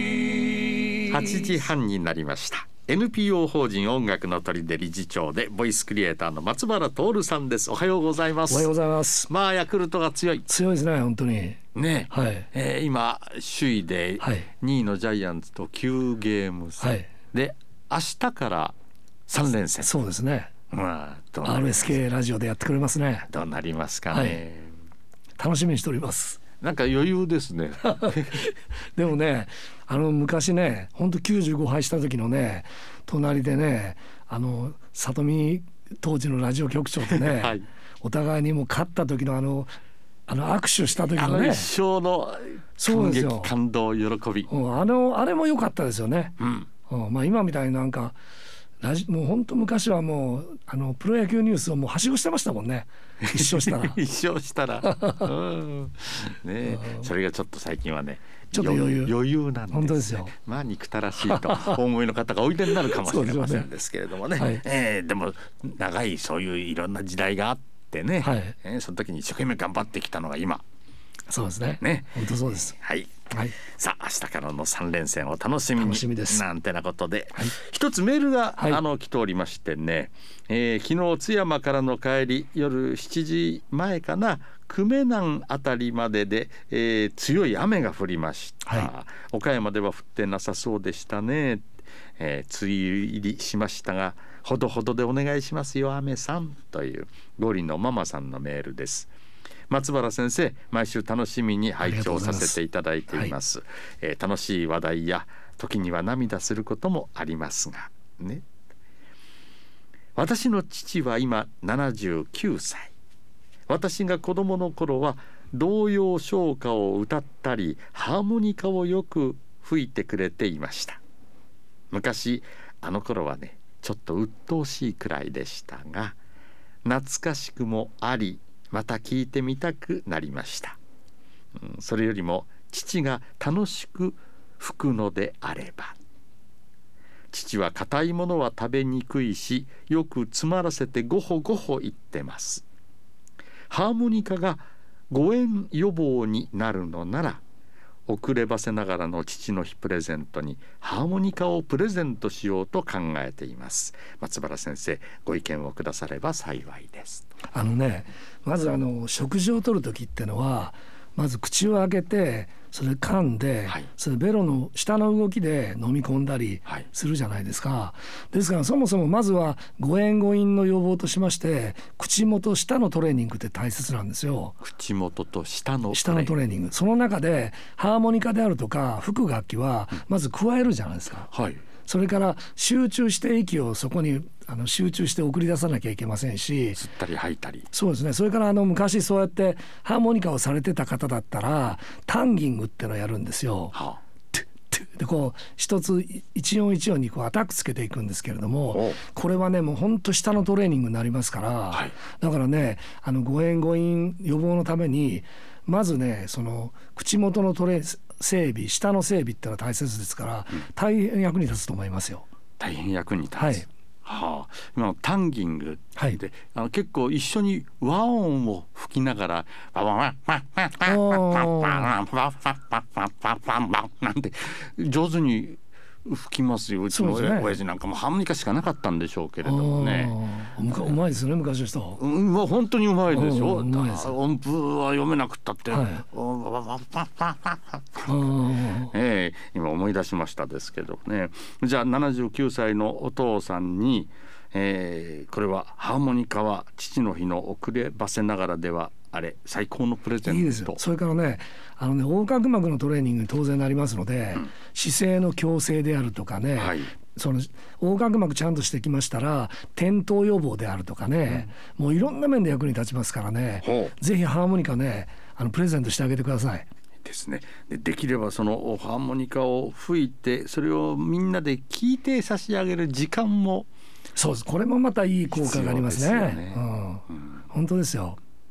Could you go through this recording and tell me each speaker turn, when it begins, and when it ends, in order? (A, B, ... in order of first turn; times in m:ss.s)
0:01.0-0:08.7 A
0:08.5-0:09.3 B
0:09.2-0:10.5 A
0:10.5-0:12.5 B
0:11.7-0:18.8 A
0:14.2-0:14.5 B
0:16.8-0:17.1 B
0:19.3-0:19.9 A
0:19.8-0:20.5 B
0:20.7-0:22.0 A
0:21.4-0:23.3 B
0:23.3-0:24.7 A
0:24.1-0:24.4 B
0:25.4-0:26.4 B
0:26.6-0:28.4 A
0:27.8-0:39.7 B
0:37.1-0:37.7 A
0:40.3-0:41.7 B
0:40.9-0:44.5 A
0:42.8-0:43.5 B
0:44.5-0:46.4 B
0:46.4-0:46.7 A
0:46.9-0:48.2 B
0:48.8-0:54.0 B
0:53.2-1:10.6 A
0:54.9-0:55.3 B
0:56.7-0:57.1 B
0:58.5-0:59.1 B
0:59.7-1:00.3 B
1:01.2-1:01.8 B
1:02.8-1:03.7 B
1:04.4-1:04.6 B
1:08.2-1:08.5 B
1:11.3-1:12.7 B
1:11.8-1:39.1 A
1:13.3-1:13.6 B
1:15.8-1:16.4 B
1:39.7-1:48.4 A
1:41.8-1:42.6 B
1:50.1-1:52.9 A
1:53.7-2:01.0 A
2:01.9-2:06.2 A
2:06.8-2:10.8 A
2:11.5-2:15.9 A
2:17.3-2:22.6 A
2:23.7-2:27.4 A
2:28.1-2:37.3 A
2:37.5-2:54.5 B
2:54.6-2:56.3 A
2:55.9-3:01.3 B
3:01.3-3:01.6 A
3:01.9-3:06.8 B
3:06.7-3:07.7 A
3:07.7-3:13.7 B
3:13.7-3:14.0 A
3:14.3-3:32.3 B
3:18.7-3:19.0 A
3:32.6-3:50.2 A
3:33.4-3:33.6 B
3:40.8-3:41.9 B
3:46.9-3:47.6 B
3:49.4-3:52.0 B
3:52.0-4:10.8 A
3:53.1-3:54.1 B
3:55.7-3:56.0 B
3:58.0-3:58.9 B
4:10.2-4:26.7 B
4:16.6-4:16.9 A
4:23.6-4:23.9 A
4:27.0-4:33.7 A
4:34.2-4:38.2 B
4:35.3-4:37.4 A